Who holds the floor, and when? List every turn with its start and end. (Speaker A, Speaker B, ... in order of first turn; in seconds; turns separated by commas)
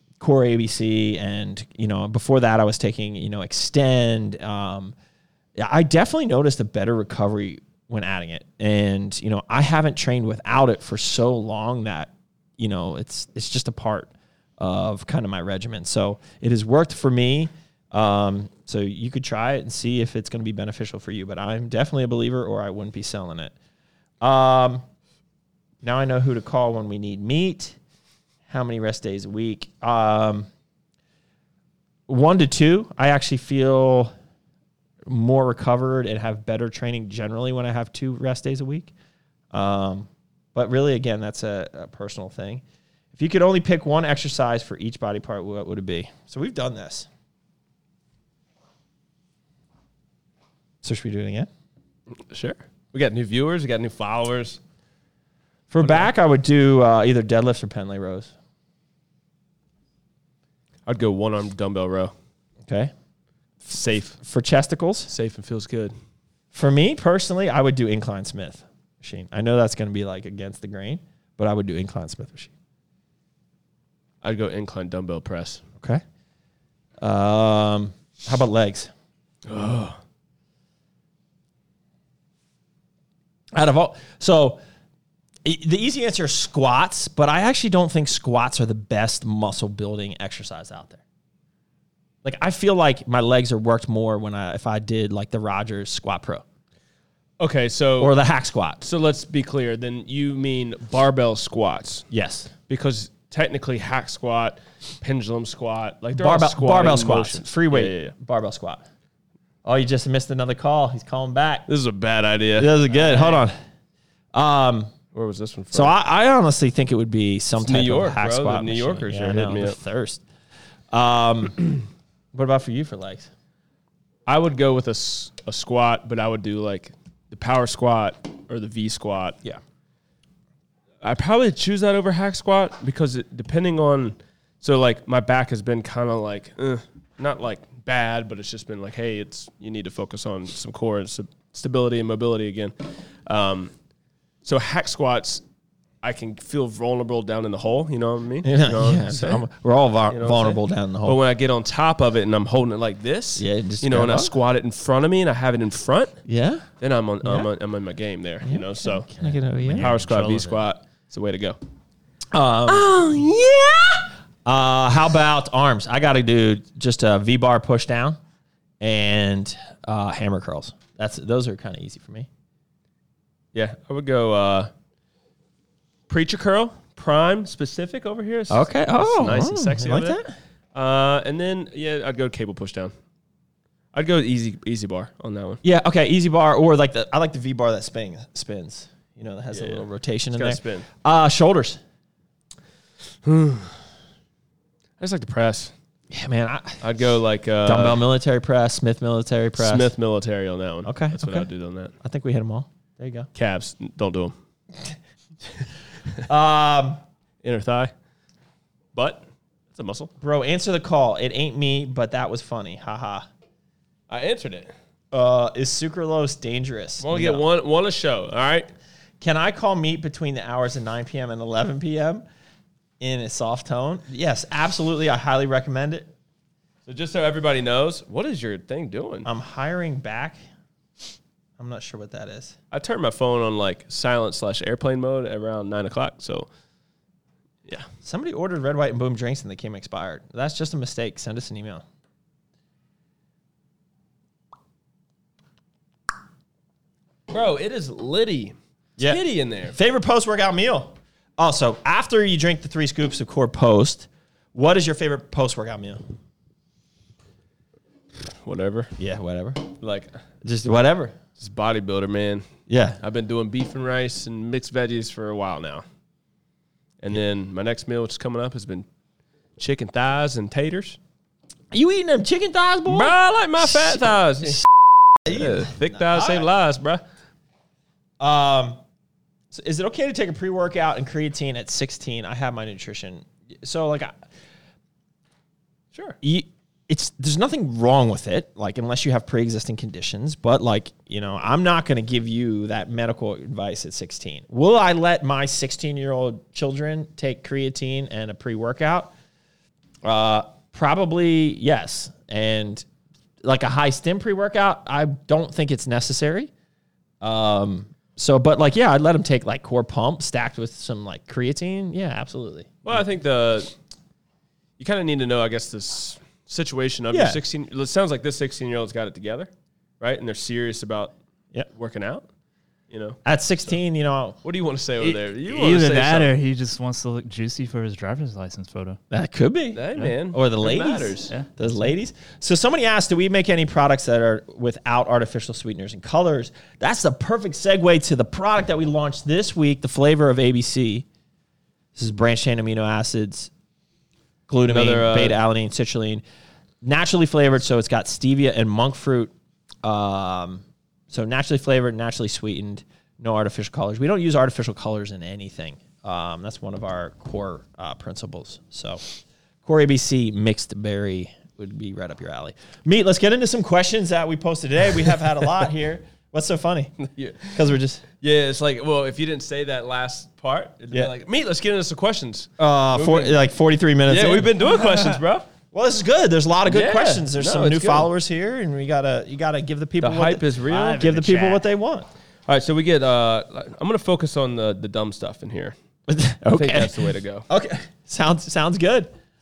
Speaker A: 0.2-4.9, Speaker A: 5.5-23.5, Speaker A: 24.2-24.8, Speaker A: 25.8-27.8, Speaker A: 28.5-30.5, Speaker A: 32.1-34.1, Speaker A: 35.0-38.9, Speaker A: 39.5-42.6, Speaker A: 43.1-47.1, Speaker A: 50.8-51.5, Speaker B: 52.2-54.6, Speaker A: 55.7-58.3, Speaker B: 55.8-56.1, Speaker B: 60.9-62.1, Speaker A: 62.6-62.9, Speaker B: 63.6-64.2, Speaker A: 64.2-65.1, Speaker B: 65.1-65.9, Speaker A: 66.5-72.5, Speaker B: 74.2-75.6, Speaker A: 77.0-78.9, Speaker B: 79.5-80.0, Speaker A: 83.5-84.6, Speaker A: 85.4-91.0, Speaker A: 92.2-96.4, Speaker B: 97.4-98.1, Speaker A: 98.0-98.8, Speaker B: 98.8-102.1, Speaker A: 102.1-102.5, Speaker B: 102.7-108.1, Speaker A: 106.2-108.8, Speaker A: 109.6-111.7, Speaker B: 111.7-113.4, Speaker A: 112.6-113.5, Speaker A: 114.3-114.9, Speaker B: 115.1-115.9, Speaker A: 115.7-120.2, Speaker B: 117.6-119.8, Speaker A: 120.9-123.3, Speaker B: 124.2-129.4, Speaker B: 131.0-143.7, Speaker B: 144.4-145.4, Speaker B: 146.0-149.4, Speaker A: 148.4-151.2, Speaker B: 150.1-156.2, Speaker A: 153.4-154.3, Speaker A: 156.2-156.7, Speaker B: 156.8-159.1, Speaker A: 157.2-157.5, Speaker A: 158.4-159.9, Speaker C: 159.2-160.6, Speaker B: 159.7-161.6, Speaker A: 162.3-162.9, Speaker B: 162.7-164.1, Speaker A: 164.4-168.2, Speaker A: 168.8-172.3, Speaker B: 173.5-174.7, Speaker B: 176.1-180.2, Speaker A: 178.5-180.3, Speaker B: 180.7-182.9, Speaker B: 183.9-185.6, Speaker A: 185.6-191.8, Speaker B: 189.5-190.9, Speaker B: 193.2-193.8, Speaker B: 195.0-195.7, Speaker A: 196.1-196.8, Speaker B: 196.8-198.0, Speaker A: 197.6-199.9, Speaker B: 199.6-201.9, Speaker A: 200.8-201.5, Speaker A: 202.0-203.3, Speaker B: 203.3-204.3, Speaker A: 206.2-207.0, Speaker B: 207.4-207.9, Speaker B: 208.9-210.1, Speaker A: 210.2-213.3, Speaker B: 214.1-214.7, Speaker A: 215.1-217.4, Speaker B: 217.0-218.7, Speaker A: 219.2-222.2, Speaker A: 223.0-226.1, Speaker B: 226.8-229.3, Speaker A: 229.2-230.4, Speaker A: 231.6-232.6, Speaker B: 232.7-236.5, Speaker A: 238.0-241.8, Speaker B: 247.3-249.8, Speaker A: 249.0-256.0, Speaker B: 258.4-258.9, Speaker A: 259.0-259.7, Speaker B: 259.8-260.1, Speaker A: 260.4-261.1, Speaker B: 261.4-262.5, Speaker A: 262.7-263.0, Speaker B: 263.0-265.8, Speaker B: 267.0-268.9, Speaker B: 269.6-271.0, Speaker A: 271.7-274.0, Speaker B: 272.9-274.6, Speaker A: 274.6-276.5, Speaker B: 275.3-277.0, Speaker A: 278.2-278.8, Speaker A: 279.5-284.1, Speaker A: 286.2-299.1, Speaker A: 300.0-302.9, Speaker A: 303.4-306.5, Speaker A: 307.2-313.0, Speaker B: 312.8-313.7, Speaker B: 314.8-321.1, Speaker A: 317.1-317.4, Speaker B: 321.7-322.2, Speaker B: 322.9-323.2, Speaker A: 323.2-324.4, Speaker B: 324.4-326.3, Speaker C: 325.0-329.0, Speaker A: 329.1-341.1, Speaker B: 329.7-331.3, Speaker A: 341.9-343.5, Speaker A: 344.5-346.2, Speaker B: 344.6-345.4, Speaker A: 346.8-349.3, Speaker A: 349.8-359.0, Speaker A: 359.6-368.0, Speaker B: 367.0-367.5, Speaker B: 368.2-373.4, Speaker A: 372.6-374.5, Speaker B: 374.1-375.5, Speaker A: 375.7-382.1, Speaker B: 376.7-378.1, Speaker B: 380.0-381.1, Speaker C: 380.7-381.6, Speaker B: 382.5-385.8, Speaker A: 386.1-389.1, Speaker B: 386.5-387.4